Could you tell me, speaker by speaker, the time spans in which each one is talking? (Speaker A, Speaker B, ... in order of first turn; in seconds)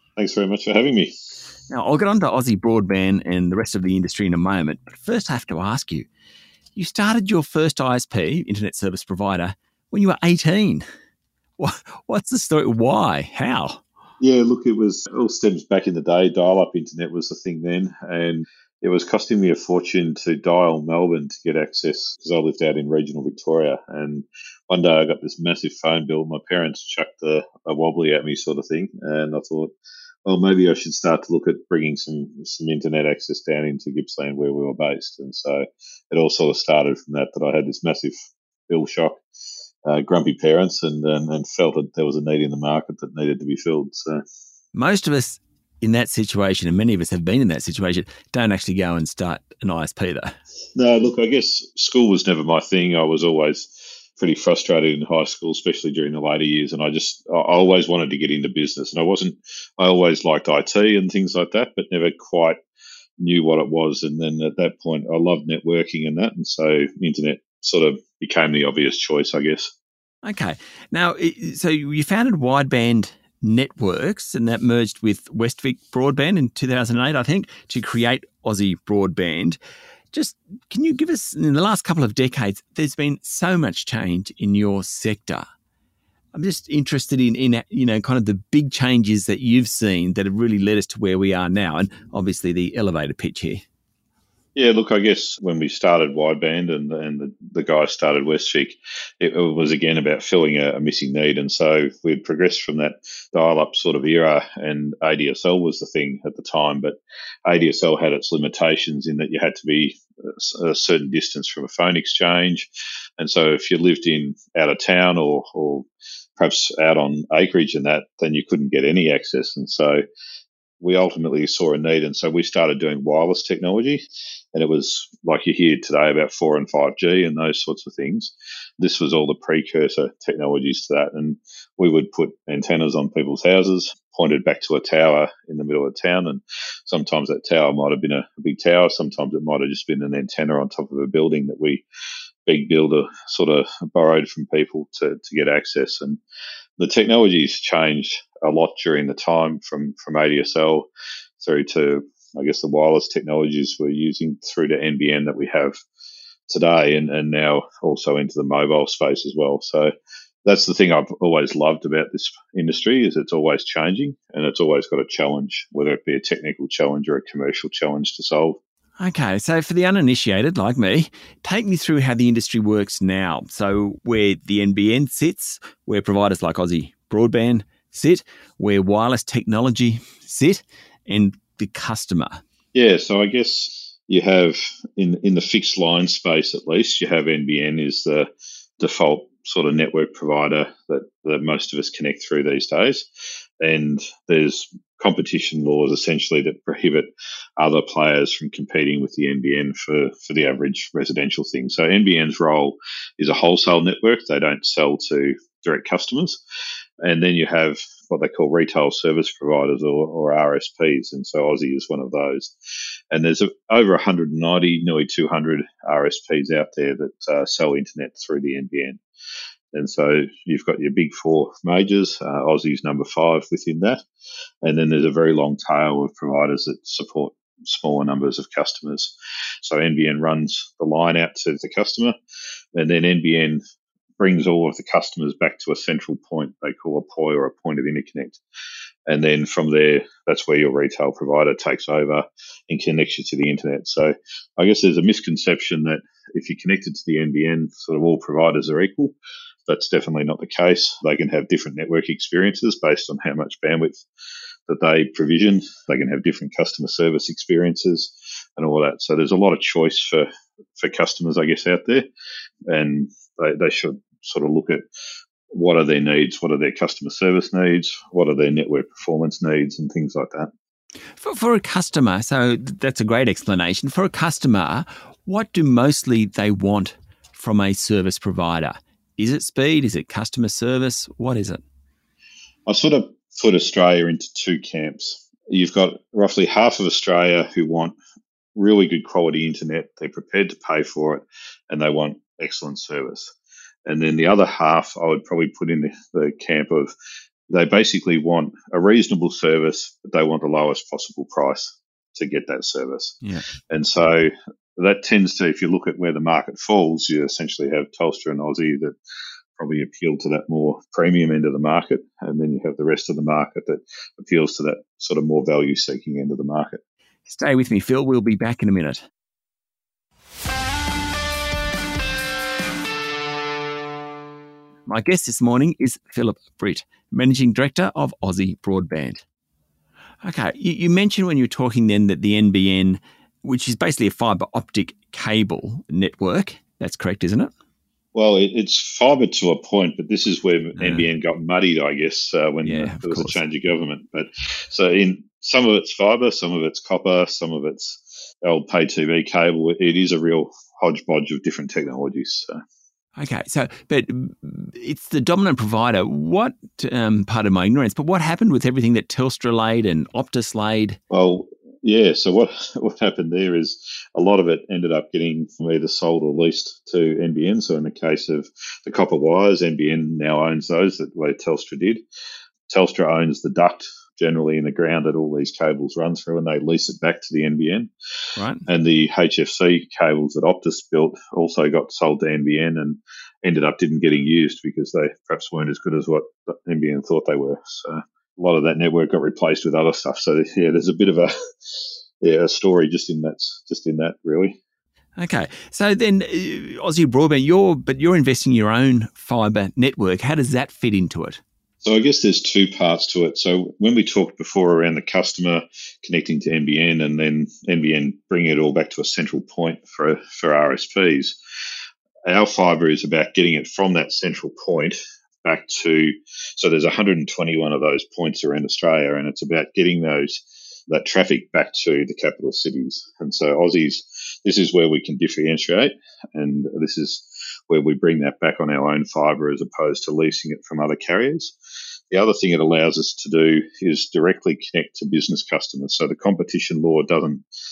Speaker A: 0.2-1.1, 14.2-29.7, 30.2-38.1, 38.7-39.2, 39.9-44.2, 50.8-62.6, 63.2-69.7, 94.5-112.7, 113.2-115.8, 116.4-120.0, 120.8-141.8, 142.4-146.2, 146.8-155.8, 156.5-159.9, 160.4-168.6, 182.7-188.3, 188.8-193.1, 193.6-206.4, 207.0-212.5, 213.1-219.0, 219.7-224.0, 224.6-232.2, 232.7-233.6, 234.2-238.4, 239.1-249.1, 249.7-254.0, 254.7-260.3, 260.8-262.1, 262.7-264.8, 265.5-270.5, 282.7-287.9, 288.5-293.3, 293.9-296.9, 297.5-303.2, 303.7-308.9, 309.6-316.8, 338.1-352.6, 361.1-372.0, 372.7-377.9, 378.7-394.6, 401.8-411.4, 412.2-431.5, 432.1-437.4
Speaker B: 1.7-6.1, 6.7-10.8, 11.6-13.8, 44.7-50.3, 70.2-79.6, 80.1-85.4, 86.3-93.6, 169.0-182.4, 271.2-281.6, 317.2-319.0, 324.9-329.2, 330.2-337.5, 340.8-341.1, 342.6-343.4, 353.2-361.0, 378.4-378.6, 395.2-401.4